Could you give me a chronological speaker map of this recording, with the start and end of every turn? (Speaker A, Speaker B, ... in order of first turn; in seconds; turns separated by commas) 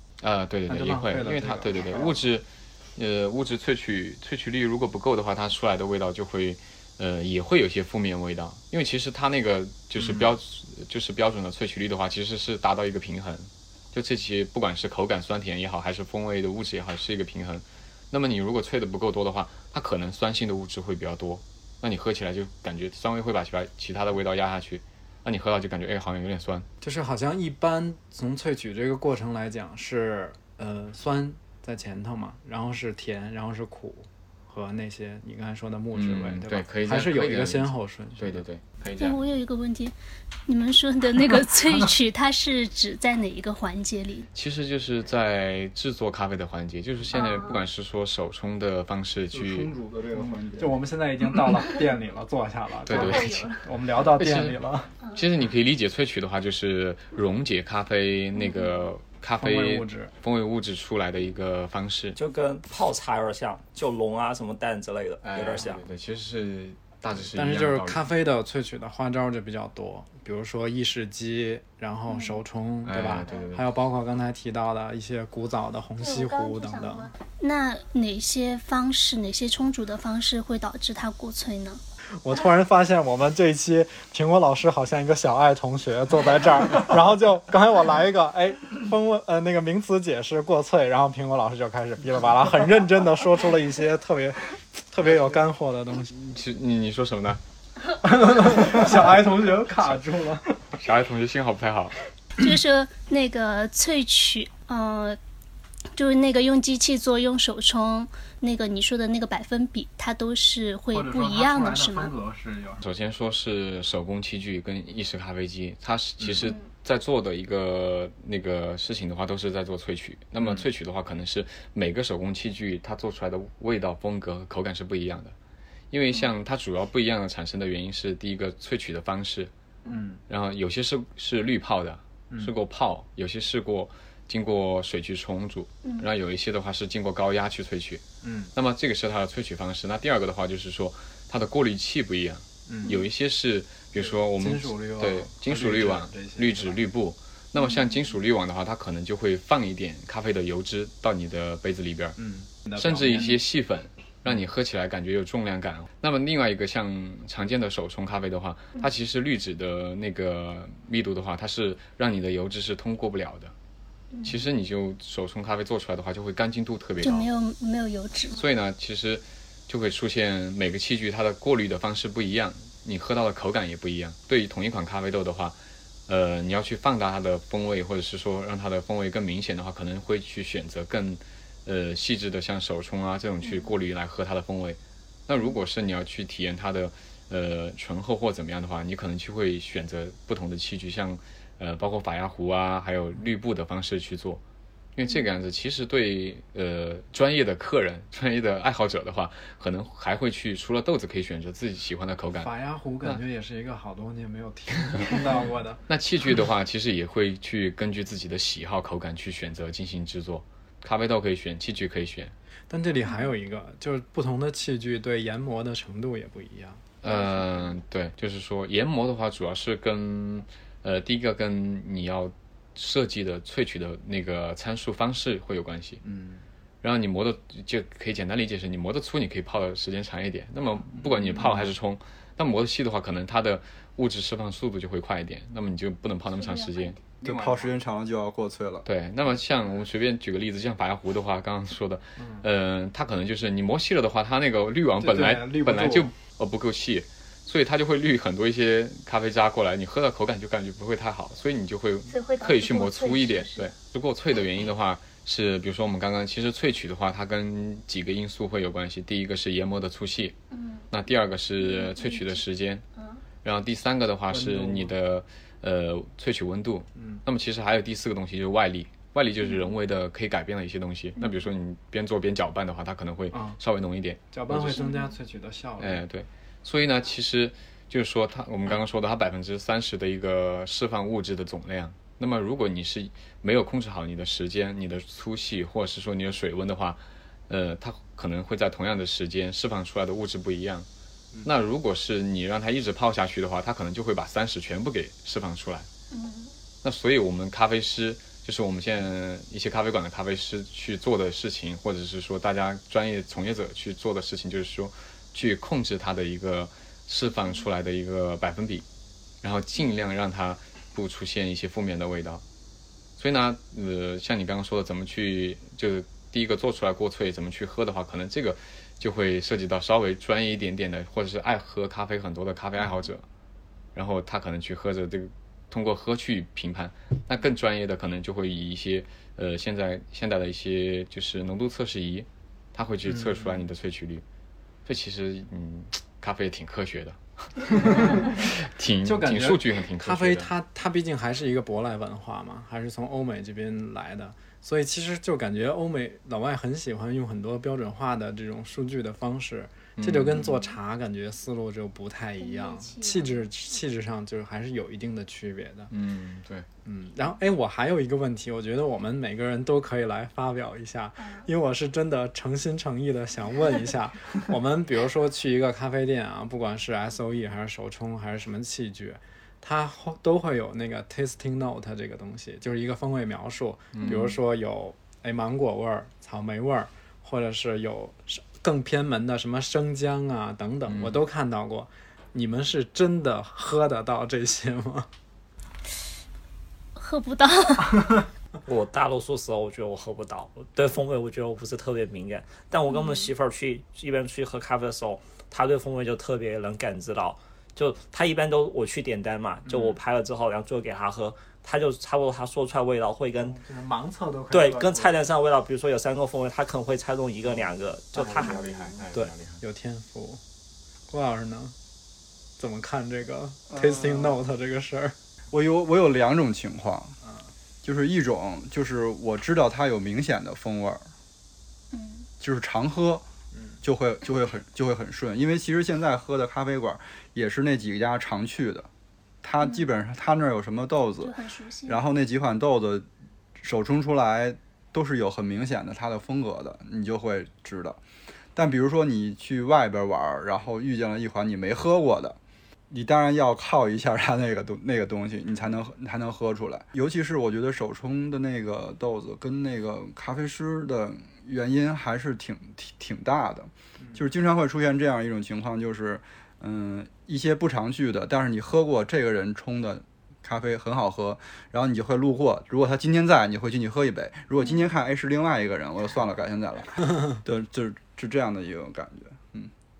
Speaker A: 0.2-26.7, Speaker B: 0.7-2.2, Speaker B: 10.0-10.3, Speaker B: 26.8-38.4, Speaker A: 35.9-39.2, Speaker C: 38.9-39.9, Speaker C: 40.5-44.3, Speaker A: 44.3-49.7, Speaker C: 47.1-47.6, Speaker D: 49.3-50.8, Speaker B: 50.1-54.9, Speaker A: 52.9-53.5, Speaker C: 52.9-53.6, Speaker A: 54.0-54.6, Speaker A: 55.1-62.2, Speaker C: 58.3-58.8, Speaker B: 59.4-60.1, Speaker E: 62.1-65.8, Speaker A: 65.2-68.0, Speaker B: 67.3-77.1, Speaker C: 72.1-72.4, Speaker A: 72.8-73.7, Speaker C: 76.0-81.8, Speaker B: 82.2-96.1, Speaker A: 96.1-97.4, Speaker B: 98.0-100.5, Speaker A: 98.6-99.0, Speaker A: 100.7-101.9, Speaker C: 102.4-105.2, Speaker C: 105.9-112.1, Speaker B: 110.9-112.8, Speaker A: 112.8-125.3, Speaker B: 116.2-116.5, Speaker C: 116.4-116.7, Speaker A: 125.9-129.5, Speaker B: 129.9-130.2, Speaker A: 130.3-138.0, Speaker C: 135.8-136.1, Speaker B: 138.2-138.5, Speaker A: 138.5-152.2, Speaker B: 142.7-143.0, Speaker B: 143.9-146.8, Speaker C: 147.6-148.1, Speaker B: 152.2-153.4, Speaker A: 152.8-163.5, Speaker C: 164.1-164.4, Speaker A: 164.2-167.3, Speaker C: 167.0-168.4, Speaker A: 168.3-194.4, Speaker C: 183.4-183.7, Speaker A: 194.9-203.2, Speaker B: 202.3-205.8, Speaker A: 205.9-212.3, Speaker B: 212.7-216.8, Speaker A: 217.0-226.0, Speaker B: 226.0-226.4, Speaker A: 226.8-237.7, Speaker B: 231.0-231.7, Speaker C: 236.3-236.9, Speaker D: 237.2-238.8, Speaker A: 238.8-260.4, Speaker B: 242.2-242.4, Speaker B: 245.0-246.1, Speaker C: 252.1-253.7, Speaker C: 260.5-260.9, Speaker A: 260.9-262.8, Speaker C: 261.6-262.4, Speaker C: 262.9-263.2, Speaker A: 263.4-274.9, Speaker B: 264.3-264.9, Speaker B: 266.9-267.2, Speaker C: 269.4-269.7, Speaker C: 271.2-271.4, Speaker B: 273.3-273.6, Speaker B: 274.3-276.0, Speaker C: 274.7-275.1, Speaker A: 275.8-290.9, Speaker A: 291.4-295.9, Speaker C: 296.1-296.5, Speaker A: 296.8-308.8, Speaker A: 309.4-312.4, Speaker A: 313.2-323.2, Speaker A: 323.9-334.2, Speaker B: 333.0-333.6, Speaker A: 334.8-340.5, Speaker B: 337.7-338.2, Speaker B: 339.0-355.9, Speaker A: 350.0-350.7, Speaker C: 352.4-353.4, Speaker A: 355.9-356.7, Speaker B: 356.8-385.1, Speaker A: 373.9-374.4, Speaker A: 380.9-381.2, Speaker C: 386.9-388.2, Speaker E: 388.6-403.6, Speaker C: 392.9-393.3, Speaker B: 399.7-400.0, Speaker B: 403.4-405.1, Speaker E: 404.5-408.7, Speaker A: 408.1-409.6, Speaker B: 409.1-410.4, Speaker B: 411.1-411.7, Speaker B: 412.6-415.1, Speaker D: 413.7-414.4, Speaker D: 415.5-417.1, Speaker D: 417.8-421.1, Speaker C: 421.9-422.3, Speaker D: 422.4-423.2, Speaker D: 423.8-428.9, Speaker D: 429.4-438.0, Speaker C: 429.6-429.9, Speaker C: 431.2-432.0, Speaker D: 438.5-442.4, Speaker D: 442.9-469.7